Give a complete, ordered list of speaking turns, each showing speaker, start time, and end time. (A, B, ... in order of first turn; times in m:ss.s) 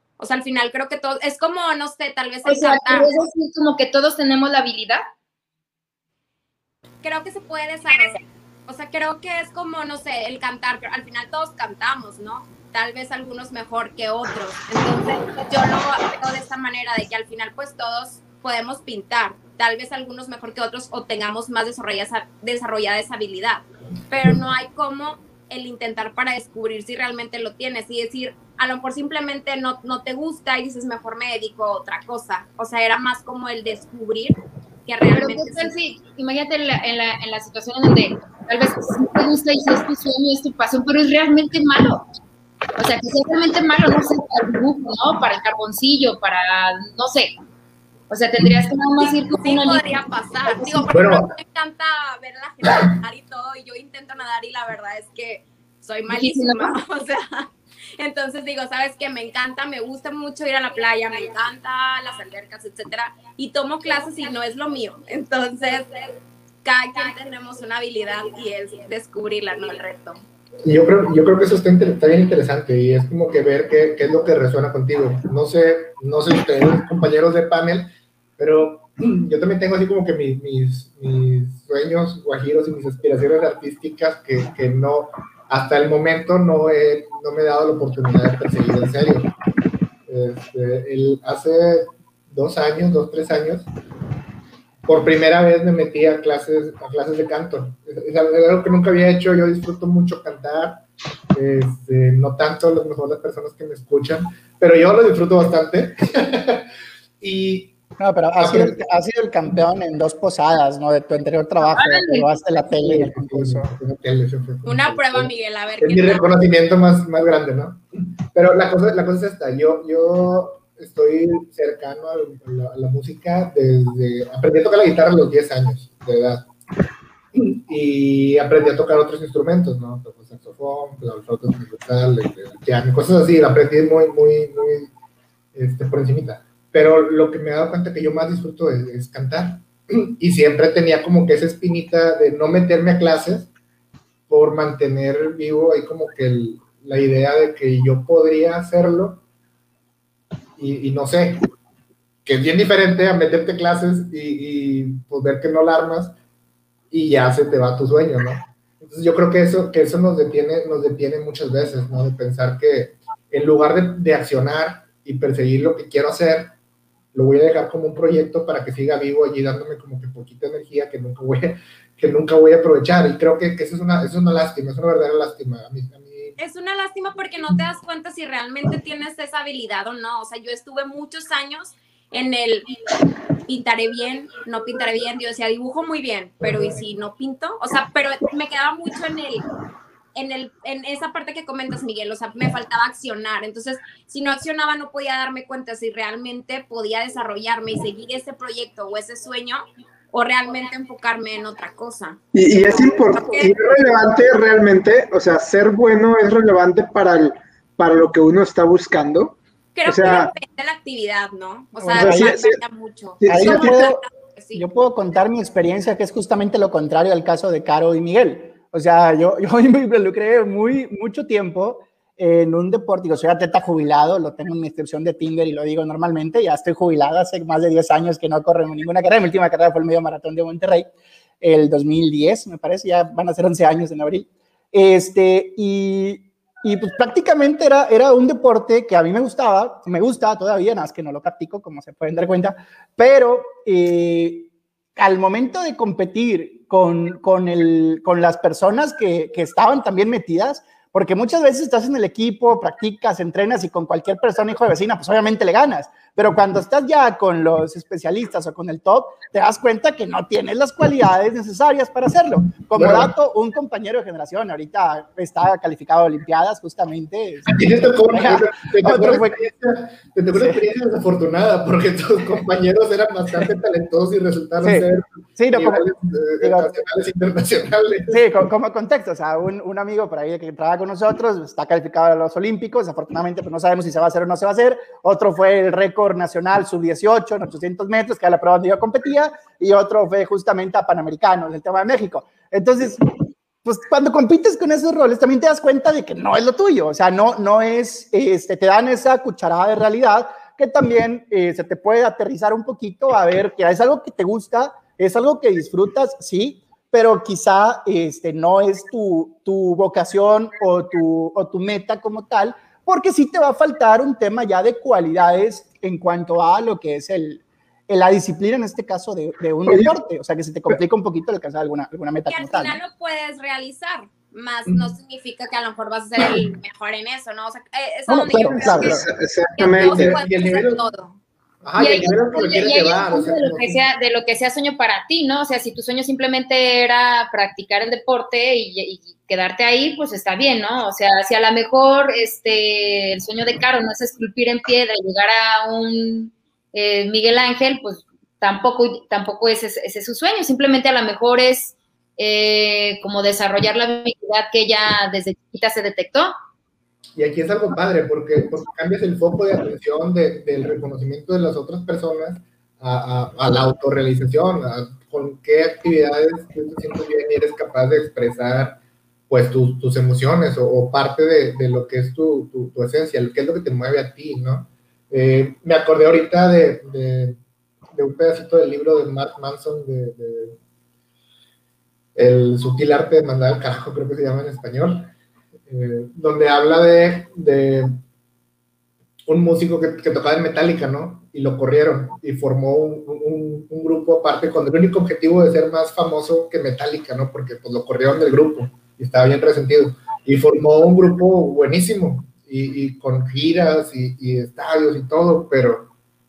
0:00.2-0:03.2 A
0:02.4-0:05.0 B
0:07.0-0:35.7 A
0:35.1-0:42.0 B
0:42.8-0:47.3 B
0:48.1-0:49.8 B
0:49.0-1:10.2 A
0:50.5-0:50.8 B
0:50.9-0:51.3 C
0:56.1-0:56.8 B
1:10.6-1:29.3 C
1:30.1-1:33.7 C
1:34.9-1:46.7 C
1:47.2-1:47.8 C
1:48.0-1:53.7 D
1:48.4-1:48.8 C
1:51.6-1:52.3 B
1:52.7-2:06.5 C
1:54.6-1:56.4 A
2:07.3-2:14.9 C
2:15.5-2:23.5 C
2:24.3-2:29.2 C
2:30.6-2:31.5 C
2:32.2-2:36.1 C
2:36.9-2:46.5 C
2:47.1-2:56.4 C
2:56.4-3:02.7 A
3:03.5-3:09.5 A
3:06.4-3:06.8 C
3:10.1-3:24.2 A
3:22.3-3:30.3 E
3:29.8-3:34.6 A
3:31.8-3:32.6 E
3:31.9-3:32.3 D
3:33.2-3:33.9 E
3:33.2-3:34.0 D
3:34.5-3:50.9 D
3:51.4-4:29.4 D
4:22.7-4:23.1 C
4:27.5-4:38.2 C
4:30.3-4:30.6 D
4:34.6-4:35.9 D
4:36.4-4:36.7 D
4:38.1-4:53.1 D
4:53.6-5:22.8 D
5:19.6-5:20.0 E
5:22.3-5:31.2 A
5:24.7-5:24.9 C
5:28.1-5:29.0 D
5:28.6-5:30.1 E
5:29.6-5:30.8 C
5:31.6-5:33.8 C
5:31.8-5:56.3 B
5:57.2-6:17.4 C
6:17.9-6:20.6 C
6:22.1-6:25.1 C
6:25.7-6:28.0 C
6:29.2-6:45.9 C